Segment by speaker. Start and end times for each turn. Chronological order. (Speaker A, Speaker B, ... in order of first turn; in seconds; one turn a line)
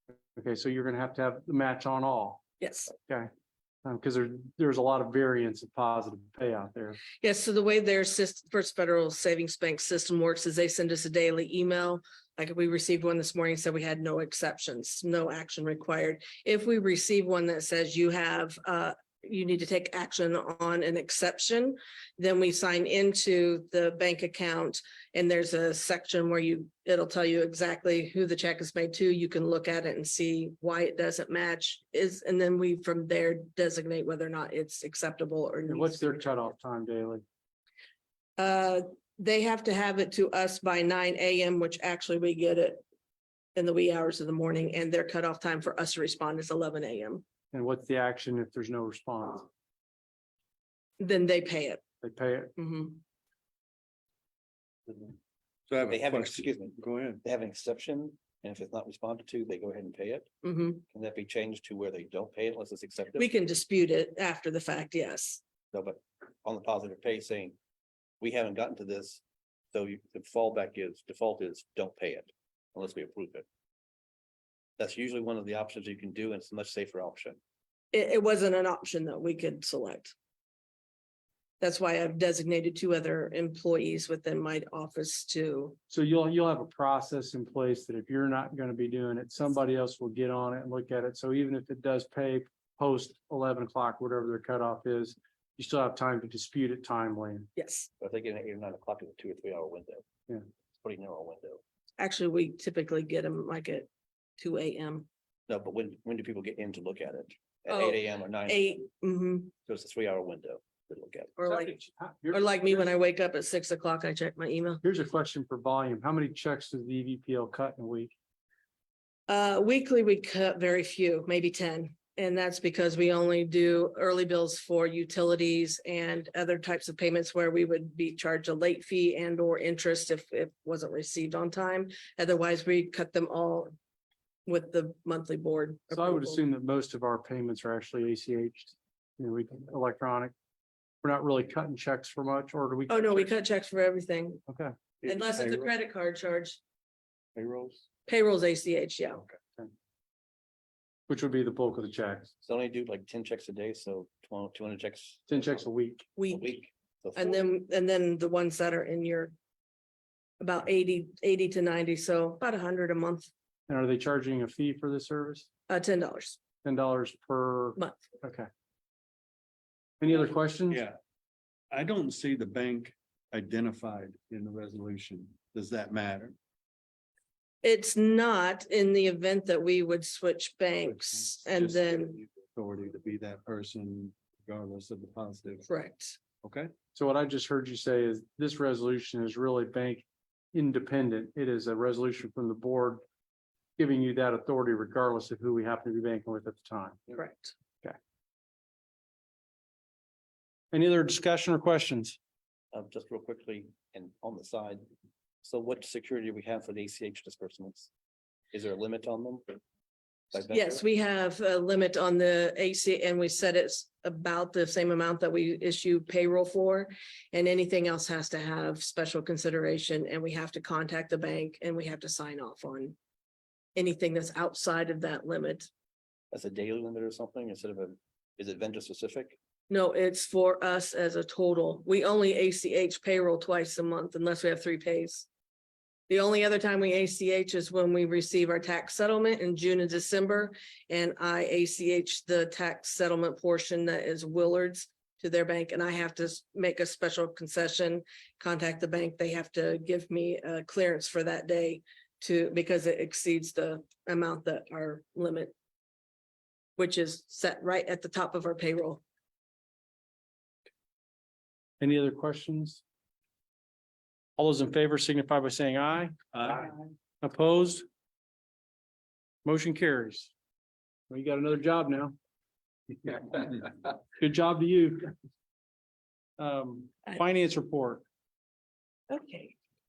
Speaker A: 0.4-2.4
Speaker B: 2.6-2.9
Speaker A: 3.9-7.0
Speaker B: 7.2-36.5
Speaker A: 35.7-37.2
Speaker B: 38.4-42.8
Speaker B: 43.5-47.2
Speaker A: 47.5-49.5
Speaker B: 51.0-51.8
Speaker A: 52.0-52.5
Speaker B: 52.6-53.0
Speaker C: 55.7-57.2
Speaker D: 55.8-60.3
Speaker B: 60.4-60.8
Speaker D: 60.9-63.3
Speaker B: 63.2-65.4
Speaker D: 65.7-67.5
Speaker D: 68.2-69.2
Speaker D: 69.7-73.5
Speaker D: 74.8-77.4
Speaker B: 77.9-80.1
Speaker B: 81.6-85.8
Speaker A: 85.9-97.5
Speaker B: 97.6-97.9
Speaker D: 98.0-100.0
Speaker D: 100.8-101.6
Speaker B: 102.0-105.1
Speaker D: 105.5-108.6
Speaker B: 107.7-109.5
Speaker D: 109.7-111.4
Speaker B: 111.4-111.8
Speaker A: 111.5-112.9
Speaker B: 112.3-114.8
Speaker A: 114.8-118.1
Speaker B: 119.3-133.7
Speaker B: 134.5-136.4
Speaker A: 135.9-140.3
Speaker A: 141.0-143.3
Speaker B: 142.9-144.4
Speaker A: 144.5-144.7
Speaker C: 145.0-145.7
Speaker B: 145.0-146.6
Speaker C: 147.4-147.8
Speaker B: 148.1-149.2
Speaker A: 151.1-152.3
Speaker D: 152.4-155.6
Speaker A: 155.3-156.1
Speaker B: 156.2-156.5
Speaker D: 156.3-157.4
Speaker B: 157.2-159.3
Speaker B: 160.4-163.3
Speaker A: 163.7-165.5
Speaker B: 165.7-166.4
Speaker A: 166.6-168.5
Speaker A: 170.0-170.8
Speaker C: 170.7-171.0
Speaker C: 171.7-176.4
Speaker B: 177.6-182.2
Speaker C: 180.9-185.7
Speaker B: 185.7-186.2
Speaker C: 186.4-186.7
Speaker A: 186.9-193.0
Speaker A: 193.8-197.1
Speaker B: 197.1-197.5
Speaker A: 200.7-202.2
Speaker D: 202.7-204.8
Speaker D: 205.4-207.9
Speaker D: 208.5-209.6
Speaker D: 210.3-210.8
Speaker B: 210.5-223.0
Speaker B: 223.8-225.7
Speaker D: 226.3-229.4
Speaker B: 229.7-235.3
Speaker B: 236.1-255.5
Speaker B: 256.8-259.0
Speaker A: 261.8-262.8
Speaker A: 264.4-267.9
Speaker C: 266.3-266.7
Speaker A: 269.4-270.3
Speaker A: 271.1-272.2
Speaker A: 273.0-275.1
Speaker A: 276.4-278.0
Speaker B: 279.1-279.5